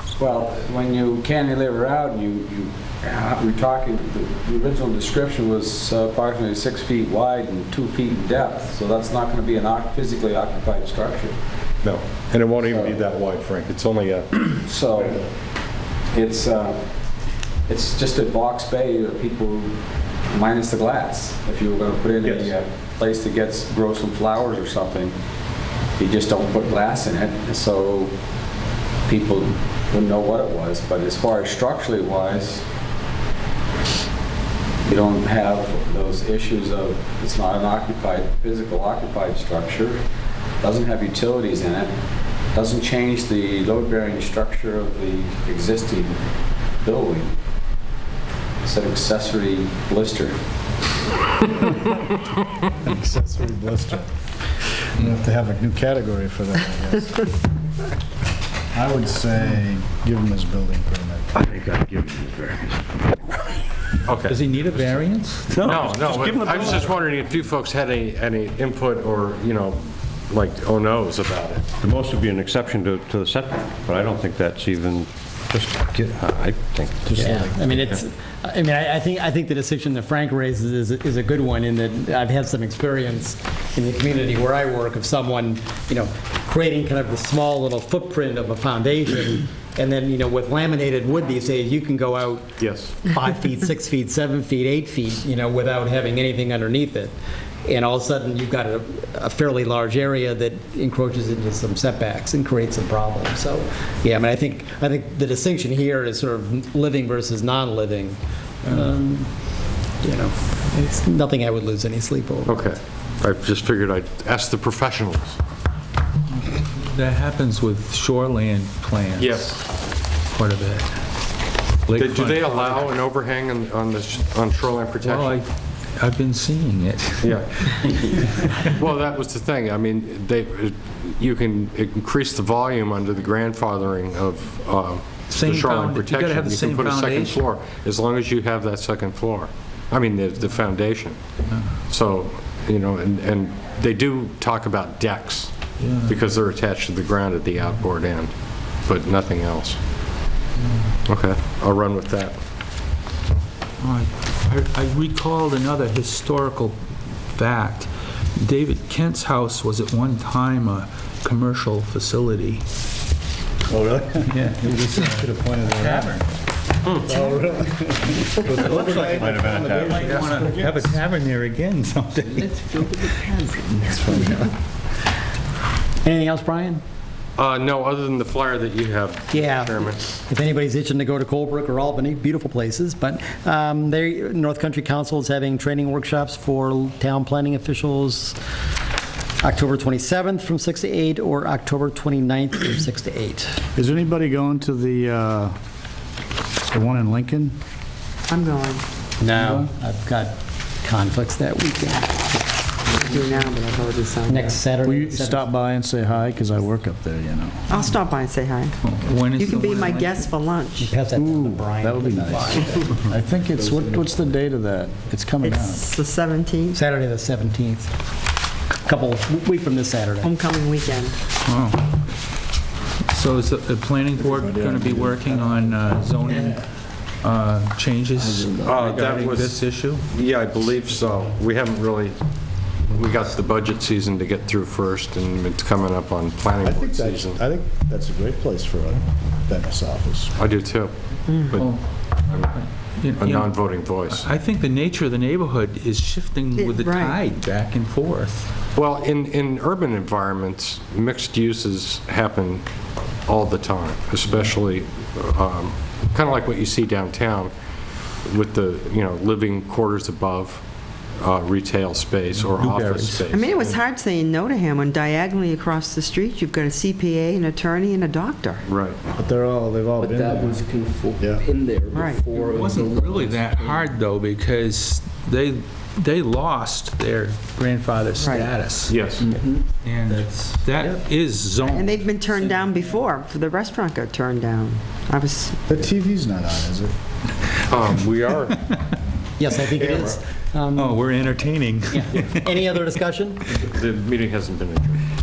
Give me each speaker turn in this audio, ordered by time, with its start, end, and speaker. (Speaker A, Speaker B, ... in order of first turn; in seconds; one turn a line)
Speaker A: 0.2-11.4
Speaker B: 11.8-14.4
Speaker A: 12.6-13.0
Speaker A: 14.7-15.3
Speaker A: 16.1-16.8
Speaker A: 17.7-19.8
Speaker A: 20.3-25.1
Speaker B: 22.3-22.5
Speaker A: 26.0-28.1
Speaker A: 29.1-32.6
Speaker A: 34.9-40.0
Speaker A: 40.6-41.9
Speaker A: 42.5-46.2
Speaker A: 46.8-47.3
Speaker A: 48.6-50.4
Speaker C: 52.8-54.1
Speaker C: 54.9-57.3
Speaker C: 58.7-61.3
Speaker D: 61.4-62.9
Speaker B: 64.1-64.4
Speaker E: 64.3-65.6
Speaker D: 65.5-66.9
Speaker B: 65.6-71.7
Speaker D: 71.8-77.8
Speaker C: 77.1-77.9
Speaker F: 77.2-97.1
Speaker B: 92.6-93.0
Speaker F: 97.7-112.6
Speaker B: 112.5-115.4
Speaker E: 116.3-119.5
Speaker B: 119.2-119.7
Speaker E: 120.2-121.0
Speaker E: 121.9-122.9
Speaker B: 121.9-125.4
Speaker E: 125.0-127.9
Speaker B: 127.2-128.1
Speaker B: 128.7-141.2
Speaker E: 135.3-137.4
Speaker B: 141.9-149.8
Speaker E: 145.8-146.2
Speaker B: 151.1-152.4
Speaker E: 153.8-156.8
Speaker E: 157.3-162.6
Speaker C: 163.7-166.2
Speaker E: 164.2-166.3
Speaker C: 167.0-170.7
Speaker E: 168.4-173.1
Speaker D: 168.7-170.5
Speaker G: 172.4-174.4
Speaker C: 173.9-174.5
Speaker F: 176.0-176.8
Speaker B: 177.4-180.0
Speaker F: 179.3-188.4
Speaker F: 189.4-193.6
Speaker C: 193.8-195.6
Speaker C: 196.7-197.6
Speaker H: 198.3-198.8
Speaker F: 199.2-202.4
Speaker C: 199.4-199.7
Speaker H: 202.9-204.6
Speaker F: 204.3-205.5
Speaker C: 204.8-207.7
Speaker H: 207.7-208.8
Speaker E: 208.8-210.3
Speaker H: 209.4-210.9
Speaker F: 210.8-212.8
Speaker C: 211.2-215.9
Speaker H: 215.4-216.8
Speaker F: 216.7-217.9
Speaker F: 218.8-220.3
Speaker H: 220.2-221.2
Speaker E: 221.5-222.0
Speaker E: 223.1-230.0
Speaker C: 224.2-226.6
Speaker B: 228.7-232.2
Speaker B: 232.7-237.4
Speaker C: 236.6-240.3
Speaker B: 240.4-242.6
Speaker H: 241.3-241.6
Speaker E: 241.5-242.0
Speaker E: 242.5-248.5
Speaker B: 243.1-244.3
Speaker H: 246.6-247.2
Speaker B: 248.7-252.7
Speaker B: 253.3-257.5
Speaker B: 258.2-263.8
Speaker E: 262.5-263.3
Speaker H: 263.3-268.6
Speaker B: 268.7-269.0
Speaker C: 269.1-270.6
Speaker G: 270.0-273.9
Speaker C: 271.2-271.4
Speaker H: 271.9-272.3
Speaker E: 272.4-279.0
Speaker H: 278.2-278.5
Speaker B: 278.9-279.3
Speaker G: 279.2-280.9
Speaker E: 279.8-282.8
Speaker H: 281.6-285.6
Speaker C: 285.7-286.9
Speaker B: 287.7-288.6
Speaker F: 289.4-291.0
Speaker B: 289.8-290.2
Speaker E: 290.7-292.5
Speaker F: 291.9-293.5
Speaker B: 293.6-295.0